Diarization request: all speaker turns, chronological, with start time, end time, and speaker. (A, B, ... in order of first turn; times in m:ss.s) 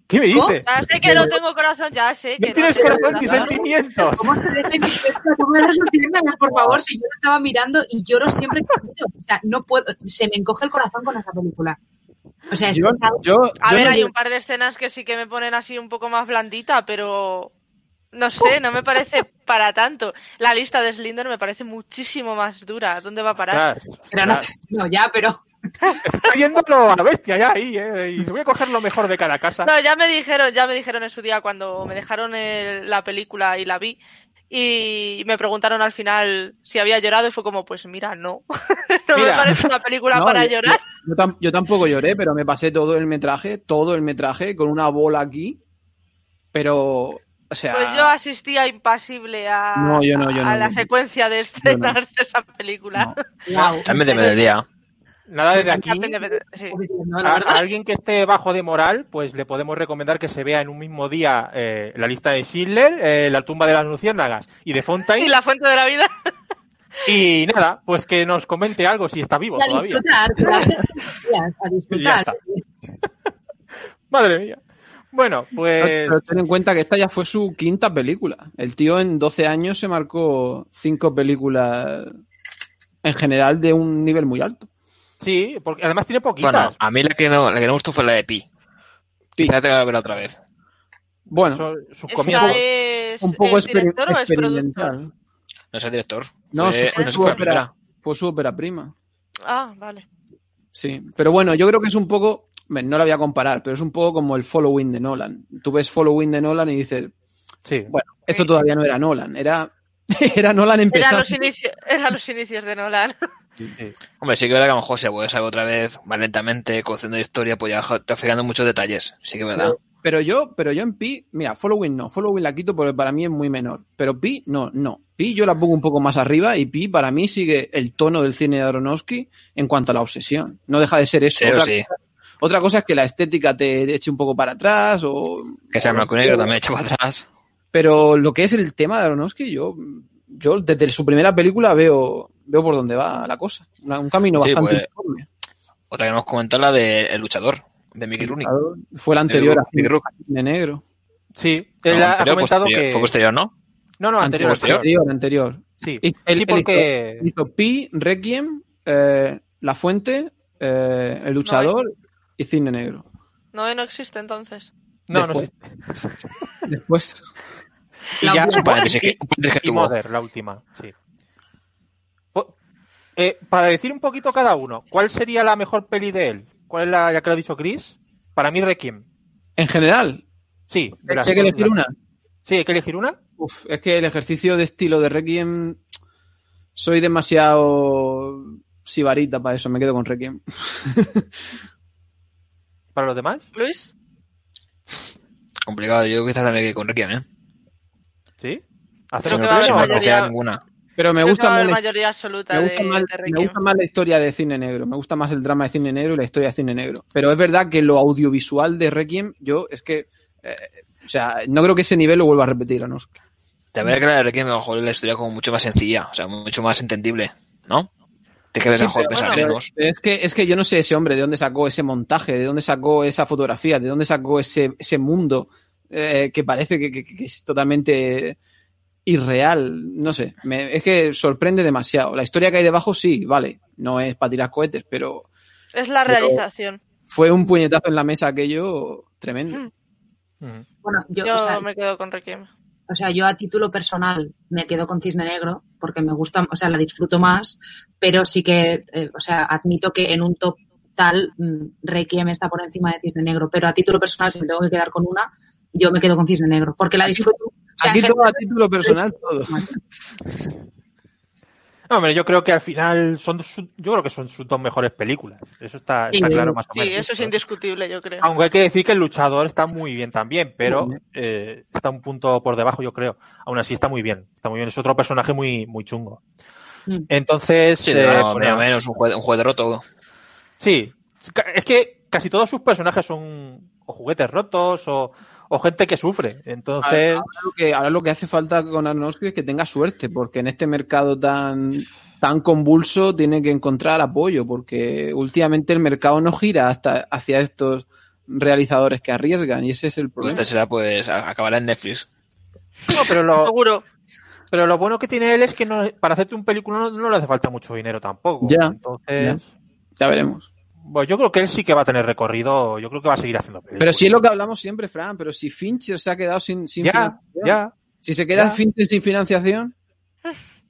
0:00.1-0:00.7 A
0:00.3-0:00.6 B
0:00.7-0:03.6 C
0:01.0-0:01.3 D
0:02.4-0:05.0 A
0:03.2-0:03.6 D
0:04.2-0:11.8 B
0:06.5-0:06.8 D
0:12.5-0:13.2 B
0:12.7-0:14.1 D
0:13.6-0:17.5 C
0:13.7-0:14.0 B
0:18.1-0:23.6 C
0:23.5-0:24.5 A
0:24.1-0:25.4 B
0:25.9-0:26.3 C
0:26.0-0:29.7 A
0:29.6-0:34.0 C
0:34.5-0:40.8 C
0:39.1-0:39.5 A
0:40.1-0:45.6 D
0:46.5-0:48.1 D
0:47.7-0:53.2 C
0:49.8-0:50.9 D
0:51.6-0:52.0 D
0:53.5-0:54.3 B
0:53.6-0:54.7 E
0:53.9-0:54.4 C
0:55.3-0:56.2 A
0:55.5-0:57.6 B
0:55.7-0:56.8 C
0:57.2-1:05.3 A
1:05.2-1:06.3 C
1:07.0-1:10.7 A
1:09.6-1:12.6 B
1:11.9-1:12.4 A
1:14.1-1:14.6 A
1:15.1-1:16.3 A
1:15.8-1:22.1 D
1:23.0-1:24.7 D
1:25.2-1:26.8 A
1:26.4-1:28.4 E
1:29.4-1:30.4 E
1:31.3-1:32.6 A
1:31.3-1:31.7 D
1:32.1-1:35.0 C
1:32.2-1:32.6 D
1:33.2-1:35.1 D
1:35.7-1:37.7 E
1:36.5-1:38.9 D
1:36.9-1:37.3 C
1:39.5-1:40.1 C
1:40.7-1:47.1 D
1:47.7-1:47.9 A
1:47.9-1:51.5 D
1:50.9-1:53.2 C
1:54.2-1:59.8 E
1:59.6-2:16.5 D
2:11.4-2:11.9 E
2:15.7-2:17.2 E
2:17.7-2:25.3 D
2:24.4-2:24.9 E
2:25.9-2:28.5 E
2:28.2-2:30.8 D
2:29.3-2:30.0 E
2:31.4-2:33.1 A
2:31.9-2:33.5 E
2:34.0-2:34.9 A
2:34.2-2:43.0 D
2:34.4-2:34.8 E
2:35.8-2:37.3 A
2:41.4-2:41.7 C
2:43.5-2:44.7 C
2:45.1-2:46.4 A
2:45.1-2:45.5 D
2:46.7-2:47.3 D
2:48.2-2:48.7 B
2:48.2-2:50.9 A
2:48.5-2:49.9 E
2:53.2-2:59.0 A
2:59.6-3:00.2 D
3:00.7-3:01.7 A
3:01.0-3:01.9 D
3:02.5-3:03.2 A
3:03.4-3:05.8 D
3:06.8-3:11.3 D
3:13.0-3:13.5 A
3:13.5-3:13.9 C
3:15.7-3:17.2 E
3:18.4-3:20.1 A
3:19.2-3:20.3 C
3:19.2-3:20.6 E
3:21.0-3:21.8 D
3:21.2-3:23.6 C
3:22.5-3:33.1 D
3:33.8-3:37.9 E
3:38.5-3:39.7 E
3:38.7-3:48.4 D
3:49.1-3:55.3 D
3:55.8-3:56.8 C
3:56.1-3:56.4 D
3:57.1-3:59.6 D
4:00.4-4:00.7 A
4:00.8-4:01.6 B
4:01.2-4:02.5 C
4:02.9-4:19.7 B
4:17.0-4:19.6 D
4:21.9-4:27.4 A
4:26.1-4:26.6 B
4:26.8-4:28.3 C
4:28.2-4:36.2 A
4:37.1-4:38.6 A
4:37.8-4:39.8 E
4:40.6-4:47.3 A
4:46.8-5:00.4 D
5:00.2-5:02.1 E
5:02.8-5:03.8 C
5:02.9-5:03.5 A
5:04.5-5:09.5 A
5:08.4-5:09.4 D
5:10.0-5:10.5 D
5:10.8-5:14.2 A
5:13.8-5:19.7 D
5:16.8-5:17.8 A
5:18.3-5:18.6 A